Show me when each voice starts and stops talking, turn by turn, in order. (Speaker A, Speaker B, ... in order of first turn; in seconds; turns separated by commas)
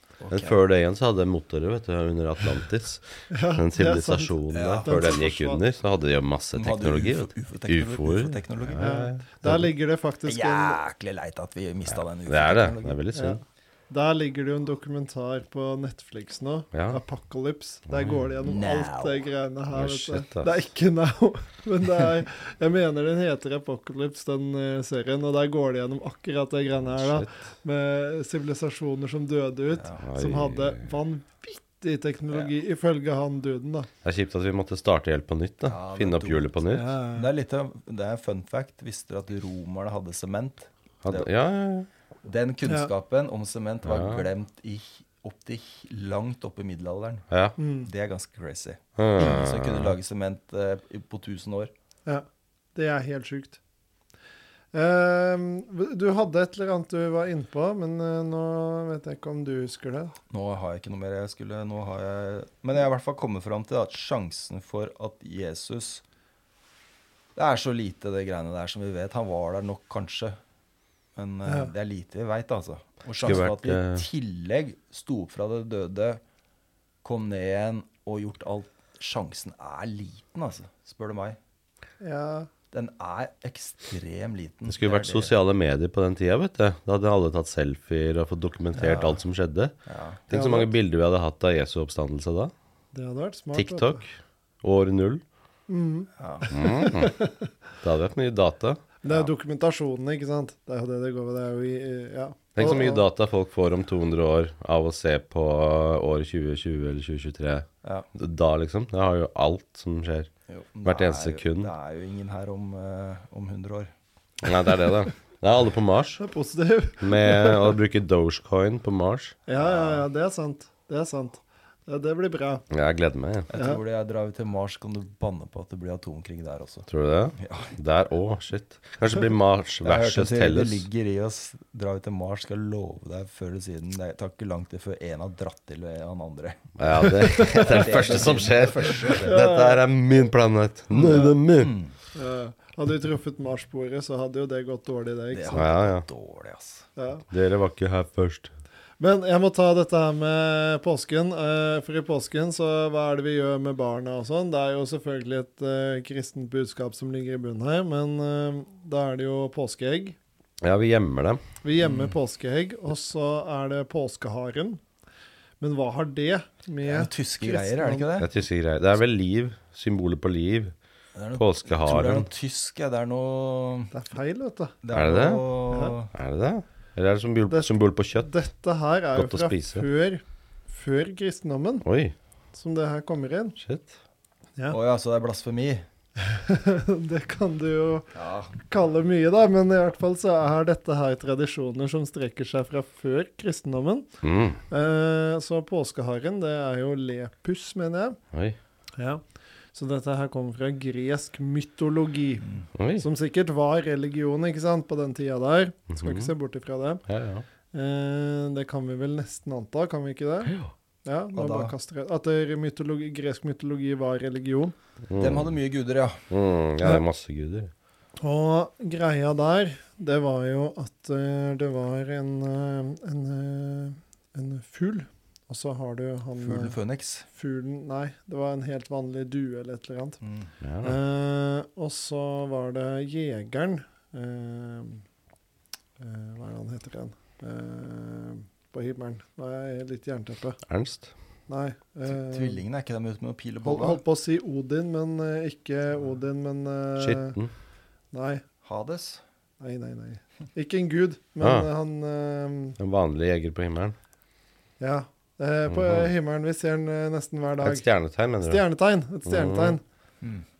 Speaker A: 0.2-0.6, Speaker B: 0.3-9.7, Speaker C: 3.3-5.6, Speaker A: 4.5-5.0, Speaker A: 6.5-8.9, Speaker C: 8.8-10.8, Speaker A: 10.3-13.0, Speaker B: 11.9-13.4, Speaker C: 13.1-33.9, Speaker B: 16.7-17.0, Speaker B: 17.9-18.3, Speaker A: 18.4-19.2, Speaker B: 19.7-20.5, Speaker B: 26.8-27.3, Speaker A: 29.7-30.0, Speaker B: 30.0-30.9, Speaker B: 34.0-36.8, Speaker A: 35.6-36.5, Speaker C: 36.7-37.3, Speaker A: 37.1-41.3, Speaker B: 41.0-41.9, Speaker A: 42.2-47.3, Speaker B: 43.9-44.2, Speaker B: 47.3-47.5, Speaker C: 47.6-47.9, Speaker A: 47.8-51.7, Speaker B: 49.0-49.9, Speaker C: 52.0-53.6, Speaker C: 54.7-60.1, Speaker A: 60.3-66.0, Speaker A: 67.3-70.4, Speaker A: 71.2-76.2, Speaker B: 73.2-74.0, Speaker A: 77.0-81.4, Speaker C: 82.0-82.5, Speaker A: 82.7-85.3, Speaker B: 84.7-89.7, Speaker A: 88.7-89.2, Speaker A: 89.8-90.2, Speaker B: 90.3-92.5, Speaker C: 90.3-90.7, Speaker C: 92.9-94.0, Speaker B: 93.5-94.1, Speaker B: 94.6-95.2, Speaker C: 95.7-97.5, Speaker A: 96.2-96.7, Speaker B: 96.5-97.2, Speaker B: 97.8-98.8, Speaker C: 99.0-103.0, Speaker B: 102.5-110.3, Speaker A: 110.5-113.9, Speaker B: 110.8-111.7, Speaker B: 114.4-116.2, Speaker C: 116.2-117.8, Speaker B: 117.0-119.3, Speaker C: 119.5-122.6, Speaker A: 119.5-120.0, Speaker B: 122.7-123.5, Speaker A: 123.5-127.7, Speaker B: 126.9-130.8, Speaker A: 129.8-139.4, Speaker B: 136.8-141.7, Speaker C: 137.0-138.0, Speaker C: 139.2-139.9, Speaker A: 140.9-141.9, Speaker C: 142.1-145.7, Speaker A: 145.3-146.8, Speaker B: 145.5-146.1, Speaker C: 147.0-147.2, Speaker B: 147.3-148.5, Speaker C: 149.0-160.2, Speaker B: 160.6-161.4, Speaker C: 161.6-164.8, Speaker A: 161.8-162.2, Speaker C: 165.6-168.1, Speaker A: 166.8-168.3, Speaker B: 168.2-170.7, Speaker A: 171.1-173.9, Speaker B: 171.3-172.3, Speaker C: 173.9-174.8, Speaker A: 174.8-176.1, Speaker B: 174.9-175.4, Speaker B: 176.1-178.3, Speaker C: 177.5-181.8, Speaker B: 179.1-179.9, Speaker B: 181.8-182.1, Speaker C: 182.5-183.6, Speaker B: 183.6-183.9, Speaker A: 184.7-185.8, Speaker C: 186.2-194.1, Speaker A: 188.1-188.6, Speaker B: 194.2-194.6, Speaker C: 194.7-198.2, Speaker C: 199.0-199.2, Speaker C: 199.7-202.4, Speaker A: 202.4-202.7, Speaker B: 202.7-203.1, Speaker C: 203.0-207.0, Speaker B: 205.9-206.3, Speaker B: 207.1-207.4, Speaker C: 207.7-214.7, Speaker B: 210.4-210.7, Speaker A: 211.3-211.7, Speaker B: 215.1-215.5, Speaker A: 215.2-216.2, Speaker B: 216.3-217.7, Speaker C: 218.2-226.8, Speaker A: 226.3-227.2, Speaker C: 227.3-230.2, Speaker A: 230.2-230.5, Speaker B: 230.6-231.0, Speaker C: 230.8-235.0, Speaker C: 236.0-240.6, Speaker B: 240.7-241.1, Speaker C: 241.5-242.6, Speaker A: 242.0-244.0, Speaker C: 243.6-247.4, Speaker B: 247.0-247.5, Speaker C: 248.1-248.4, Speaker A: 248.6-249.2, Speaker C: 249.6-252.8, Speaker B: 251.4-251.7, Speaker B: 252.8-253.9, Speaker C: 254.8-257.9, Speaker B: 255.7-256.1, Speaker B: 257.6-258.6, Speaker C: 258.4-259.8, Speaker B: 259.2-259.8